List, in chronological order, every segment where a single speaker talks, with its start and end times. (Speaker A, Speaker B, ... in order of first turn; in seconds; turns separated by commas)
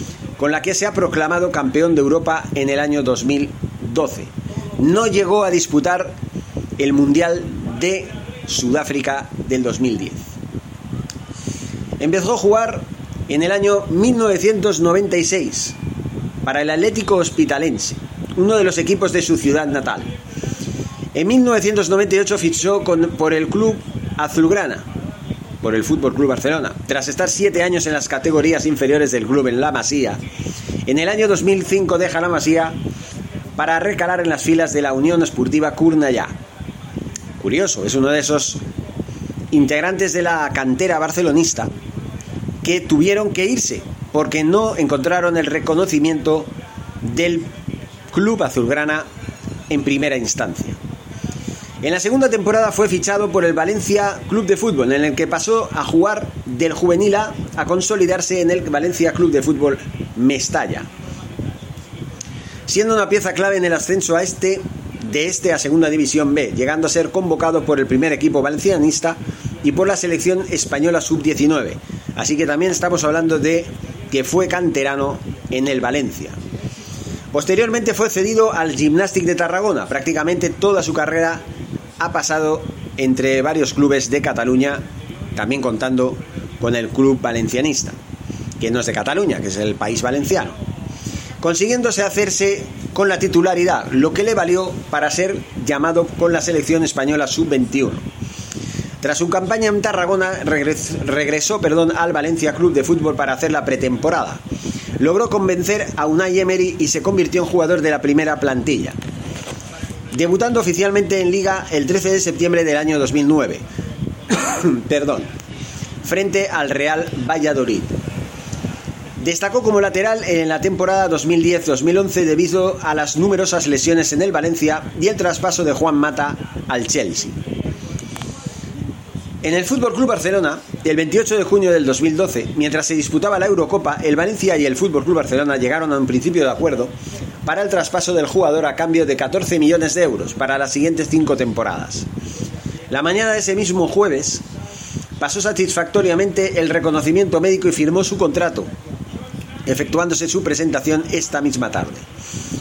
Speaker A: 0.4-6.2, Speaker A: 6.8-10.3, Speaker A: 12.0-15.8, Speaker A: 16.4-20.1, Speaker A: 21.1-24.9, Speaker A: 25.6-30.2, Speaker A: 30.9-32.8, Speaker A: 33.6-36.4, Speaker A: 37.4-38.6, Speaker A: 39.5-41.7, Speaker A: 42.6-47.5, Speaker A: 48.1-49.0, Speaker A: 49.7-50.8, Speaker A: 51.8-60.9, Speaker A: 62.7-76.4, Speaker A: 77.3-81.5, Speaker A: 82.0-84.8, Speaker A: 85.3-88.0, Speaker A: 88.6-90.6, Speaker A: 91.4-98.0, Speaker A: 99.0-104.4, Speaker A: 105.0-109.0, Speaker A: 110.1-113.6, Speaker A: 114.3-115.3, Speaker A: 116.0-118.0, Speaker A: 119.2-127.4, Speaker A: 129.4-136.9, Speaker A: 137.4-142.1, Speaker A: 142.9-144.4, Speaker A: 145.2-148.7, Speaker A: 149.7-152.1